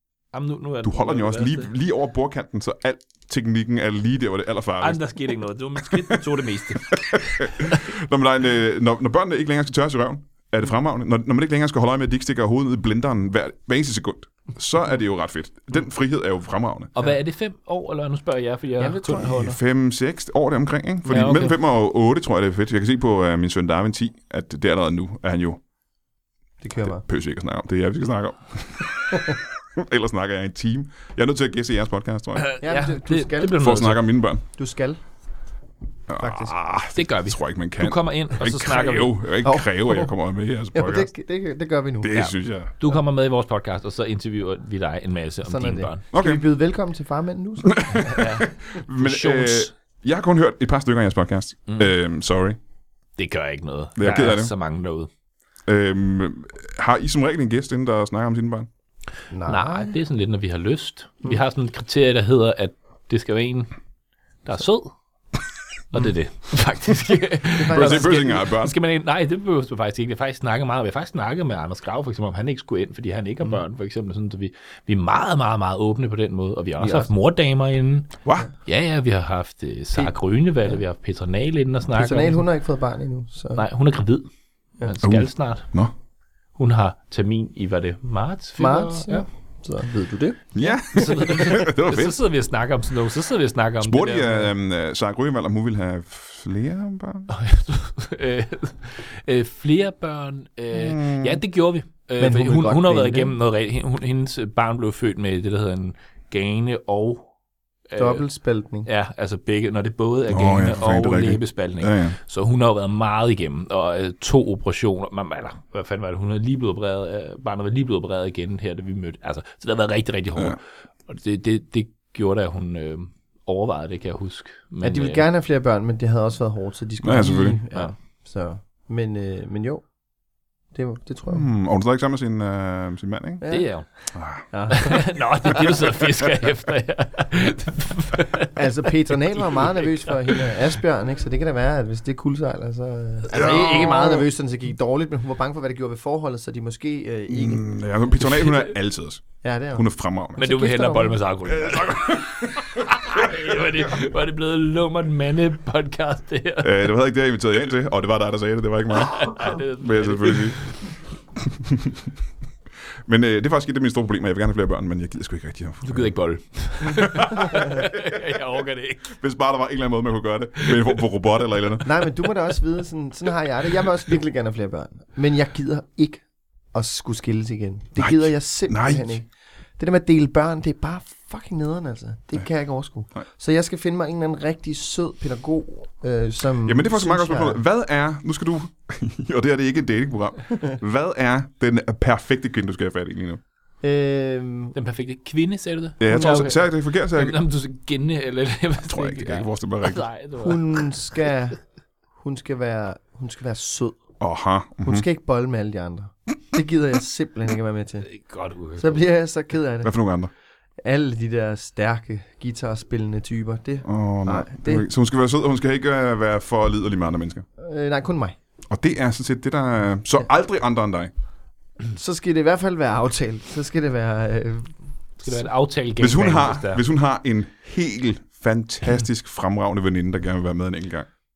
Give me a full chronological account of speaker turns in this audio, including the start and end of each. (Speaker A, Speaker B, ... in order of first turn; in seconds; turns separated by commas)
Speaker A: 0.3-1.7, Speaker B: 0.8-5.1, Speaker A: 4.8-7.7, Speaker B: 6.9-16.9, Speaker A: 16.9-19.6, Speaker C: 18.8-19.3, Speaker B: 19.1-25.6, Speaker A: 21.1-21.5, Speaker C: 26.6-27.0, Speaker B: 26.8-32.5, Speaker A: 32.4-34.0, Speaker C: 32.6-33.7, Speaker B: 33.6-34.4, Speaker C: 34.5-35.0, Speaker B: 36.1-41.1, Speaker C: 36.2-36.5, Speaker A: 36.9-39.2, Speaker C: 39.4-40.1, Speaker C: 40.7-42.2, Speaker B: 42.0-42.8, Speaker A: 42.1-46.0, Speaker C: 45.4-48.0, Speaker B: 46.1-46.4, Speaker B: 47.6-52.6, Speaker A: 48.1-49.7, Speaker A: 53.2-55.1, Speaker B: 54.0-54.5, Speaker B: 55.7-58.7, Speaker C: 59.3-59.9, Speaker A: 59.4-63.7, Speaker A: 64.4-64.9, Speaker A: 65.9-82.4, Speaker C: 67.6-68.2, Speaker B: 67.7-68.7, Speaker C: 76.8-77.1, Speaker C: 81.9-83.6, Speaker A: 83.5-84.3, Speaker A: 84.8-85.7, Speaker B: 85.0-85.9, Speaker A: 86.6-89.2, Speaker C: 88.6-90.4, Speaker B: 90.5-92.2, Speaker A: 90.6-94.5, Speaker B: 93.8-97.3, Speaker A: 97.3-107.2, Speaker B: 100.7-101.4, Speaker C: 102.2-103.4, Speaker A: 107.9-108.2, Speaker C: 108.0-108.9, Speaker A: 108.8-125.2, Speaker B: 110.3-112.2, Speaker C: 124.8-129.8, Speaker B: 127.0-127.6, Speaker C: 130.7-131.4, Speaker B: 131.3-133.4, Speaker C: 133.4-133.7, Speaker A: 133.5-133.9, Speaker B: 134.1-134.4, Speaker C: 134.5-135.7, Speaker A: 134.7-138.6, Speaker C: 138.5-147.6, Speaker A: 139.3-140.5, Speaker A: 143.3-144.2, Speaker B: 143.3-143.7, Speaker B: 147.3-150.4, Speaker A: 148.3-148.7, Speaker C: 149.4-149.8, Speaker C: 150.3-151.2, Speaker A: 150.4-156.8, Speaker B: 151.5-153.3, Speaker B: 156.6-160.6, Speaker A: 158.9-160.8, Speaker B: 161.6-161.9, Speaker B: 163.1-166.1, Speaker A: 165.8-169.2, Speaker B: 166.8-167.9, Speaker B: 169.1-171.9, Speaker A: 170.6-170.9, Speaker C: 171.8-187.6, Speaker B: 178.0-179.2, Speaker B: 186.6-193.4, Speaker C: 193.8-194.7, Speaker A: 194.7-201.3, Speaker B: 196.0-197.4, Speaker C: 196.1-196.4, Speaker B: 198.9-200.1, Speaker C: 200.4-201.6, Speaker C: 202.2-204.0, Speaker B: 204.2-205.0, Speaker C: 204.8-208.1, Speaker A: 208.0-209.0, Speaker C: 208.8-209.9, Speaker B: 209.8-210.3, Speaker C: 210.8-214.8, Speaker B: 213.8-217.4, Speaker C: 217.6-218.3, Speaker B: 218.7-221.1, Speaker C: 221.9-224.7, Speaker A: 225.2-226.8, Speaker B: 226.0-231.1